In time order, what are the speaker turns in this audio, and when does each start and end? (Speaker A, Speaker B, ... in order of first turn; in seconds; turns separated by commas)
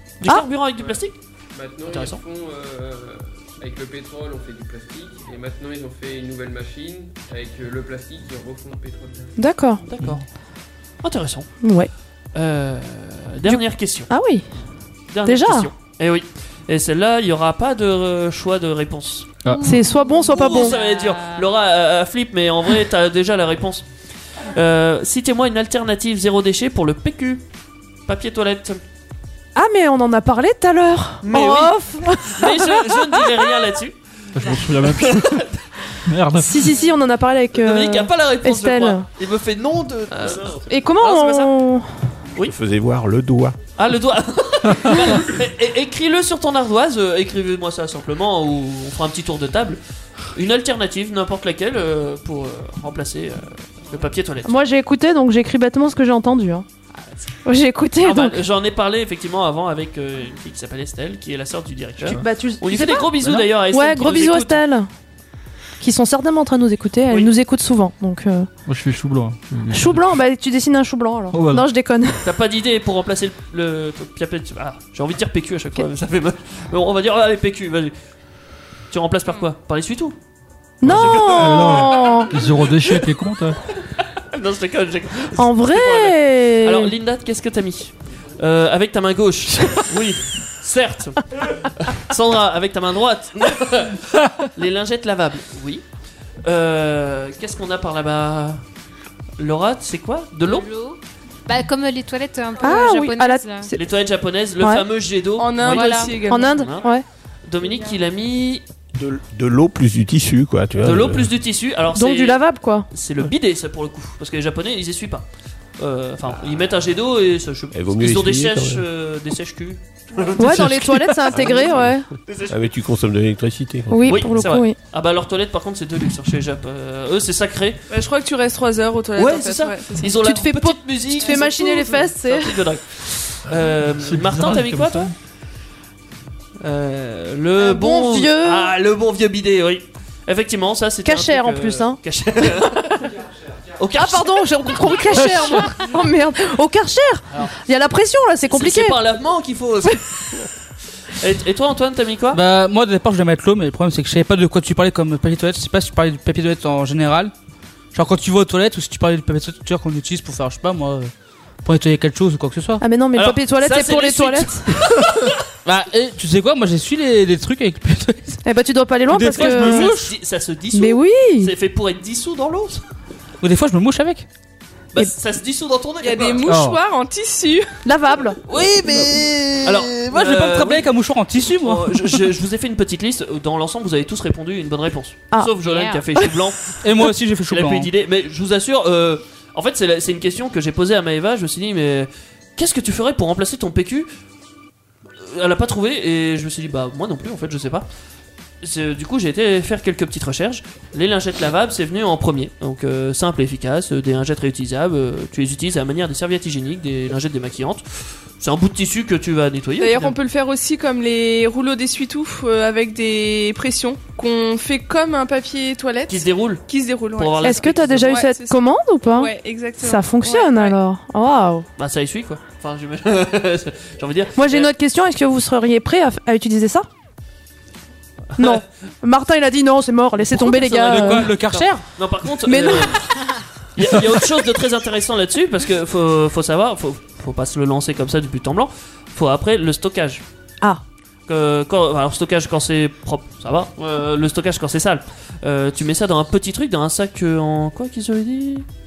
Speaker A: 0.2-1.1, Speaker B: 0.7-9.3, Speaker A: 1.9-2.2, Speaker C: 9.4-9.8, Speaker A: 9.9-10.2, Speaker A: 11.0-11.5, Speaker C: 11.6-11.9, Speaker A: 12.3-14.1, Speaker C: 13.4-14.5, Speaker A: 15.1-19.4, Speaker C: 15.3-15.7, Speaker D: 19.4-19.7, Speaker E: 19.4-21.4, Speaker C: 19.6-20.8, Speaker A: 20.3-23.9, Speaker A: 24.5-27.4, Speaker A: 28.1-28.8, Speaker C: 29.6-33.8, Speaker A: 31.2-35.6, Speaker D: 34.3-35.4, Speaker D: 36.0-36.7, Speaker C: 36.4-39.0, Speaker A: 37.5-41.5, Speaker C: 40.3-41.9, Speaker F: 42.4-43.6, Speaker A: 43.8-49.8, Speaker A: 50.3-54.5, Speaker C: 54.4-56.6, Speaker C: 57.4-58.4, Speaker A: 58.0-64.6, Speaker C: 62.0-64.9, Speaker C: 65.8-68.5, Speaker D: 68.7-70.2, Speaker C: 69.7-72.3, Speaker D: 71.3-71.7, Speaker A: 72.2-77.9, Speaker A: 78.9-80.2, Speaker C: 80.8-82.3, Speaker D: 80.8-83.6, Speaker A: 80.8-82.2, Speaker A: 84.3-95.8, Speaker C: 85.4-86.9, Speaker A: 96.4-98.6, Speaker A: 99.4-100.7, Speaker E: 100.4-103.7, Speaker C: 102.6-103.8, Speaker A: 103.7-106.9, Speaker G: 105.4-106.7, Speaker E: 105.7-106.1, Speaker C: 106.3-107.0, Speaker A: 107.5-108.6, Speaker F: 109.0-111.3, Speaker A: 110.8-115.3, Speaker C: 111.9-112.9, Speaker A: 115.8-122.6, Speaker F: 117.7-118.8, Speaker F: 120.3-120.6, Speaker C: 120.4-122.1, Speaker F: 121.3-122.0, Speaker F: 122.5-124.2, Speaker C: 123.9-124.7, Speaker A: 124.1-127.8, Speaker G: 127.9-130.1, Speaker A: 129.2-135.1, Speaker C: 130.1-132.6, Speaker D: 134.0-135.1, Speaker A: 136.6-143.2, Speaker C: 137.6-138.7, Speaker C: 141.1-142.0, Speaker A: 143.8-145.8, Speaker C: 143.9-149.0, Speaker A: 148.5-150.4, Speaker A: 151.1-152.4, Speaker H: 152.3-157.3, Speaker H: 157.9-161.1, Speaker H: 161.6-162.8, Speaker C: 162.8-164.7, Speaker A: 163.1-165.4, Speaker H: 165.7-168.4, Speaker C: 168.4-169.9, Speaker H: 169.1-170.1, Speaker A: 169.3-172.8, Speaker C: 170.7-171.5, Speaker H: 173.4-174.3, Speaker A: 174.9-176.5, Speaker G: 176.0-177.8, Speaker C: 177.8-178.4, Speaker H: 178.5-182.2, Speaker A: 178.5-194.1, Speaker E: 185.6-186.0, Speaker H: 186.8-187.9, Speaker A: 195.2-197.9, Speaker A: 198.6-210.2, Speaker G: 209.8-220.8, Speaker A: 216.1-218.2, Speaker C: 217.4-221.7, Speaker A: 221.8-224.7, Speaker C: 224.4-226.9, Speaker A: 228.4-228.6, Speaker C: 228.4-231.3, Speaker A: 230.2-240.2, Speaker H: 230.6-231.8, Speaker C: 232.4-233.1, Speaker A: 241.3-248.7